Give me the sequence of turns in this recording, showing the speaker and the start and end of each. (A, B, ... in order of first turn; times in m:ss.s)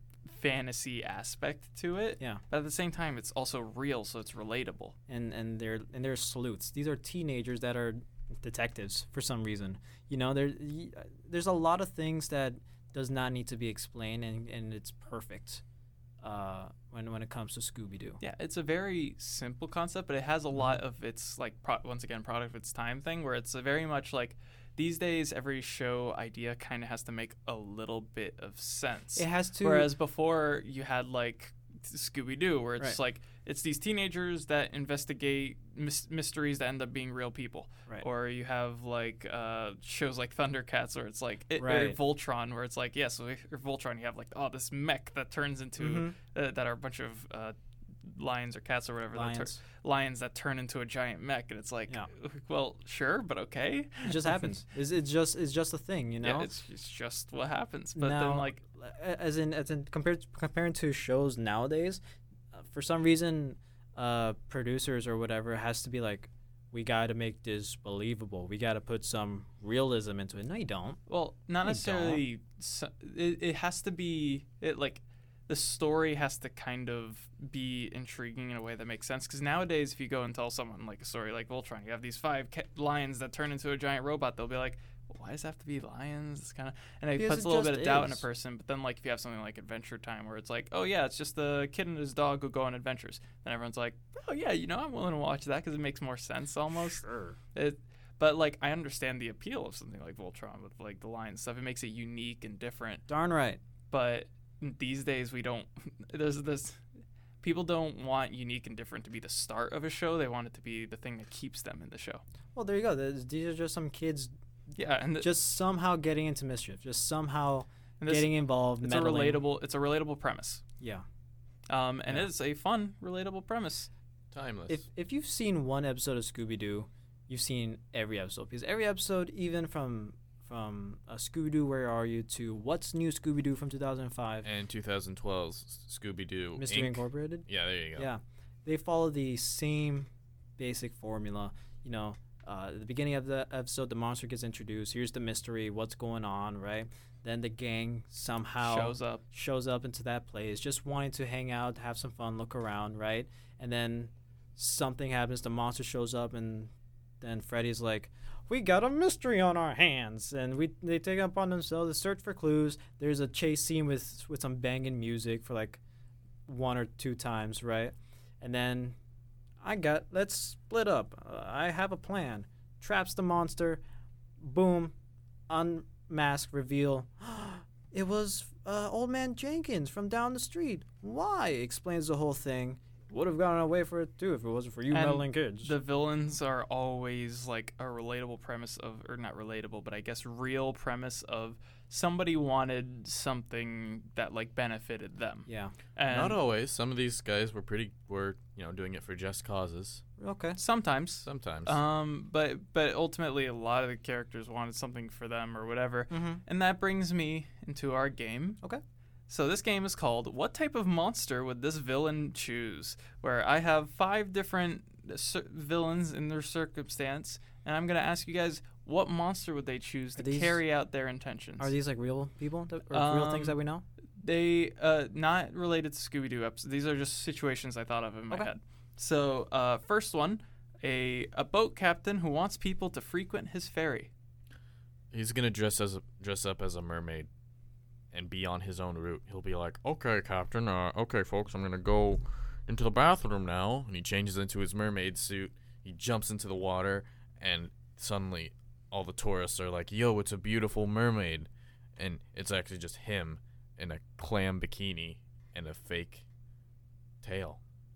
0:00.2-0:05.0 A
0:05.1-0:15.6 B
0:16.2-0:18.2 B
0:18.2-0:54.5 A
0:29.2-0:29.9 B
0:41.6-0:42.0 B
0:45.8-0:46.1 B
0:49.1-0:49.6 B
0:54.0-0:56.5 B
0:56.2-0:58.6 A
0:58.0-1:02.0 B
1:02.5-1:11.0 B
1:11.1-1:43.0 A
1:11.6-1:12.2 B
1:27.2-1:28.2 B
1:36.7-1:37.4 B
1:43.1-1:43.6 B
1:43.9-1:46.9 A
1:47.4-1:52.2 A
1:52.6-1:54.3 B
1:54.8-1:55.3 A
1:55.2-1:59.4 B
1:58.0-2:00.6 A
2:00.8-2:01.0 B
2:01.7-2:03.9 A
2:04.3-2:04.8 C
2:04.7-2:14.5 B
2:14.4-2:18.1 C
2:16.6-2:45.8 B
2:28.6-2:29.2 A
2:46.5-2:49.0 B
2:49.6-2:53.8 B
2:54.4-2:55.0 B
2:55.5-3:05.7 B
3:04.9-3:16.4 A
3:15.5-3:15.8 B
3:16.1-3:20.0 C
3:20.2-3:20.6 B
3:20.6-3:28.6 A
3:21.2-3:21.8 C
3:26.1-3:26.4 B
3:29.3-3:41.7 A
3:40.2-3:40.6 B
3:41.6-3:43.8 B
3:42.9-3:43.6 A
3:44.2-3:54.1 A
3:55.1-3:57.3 C
3:58.1-4:16.2 C
4:17.2-4:17.6 C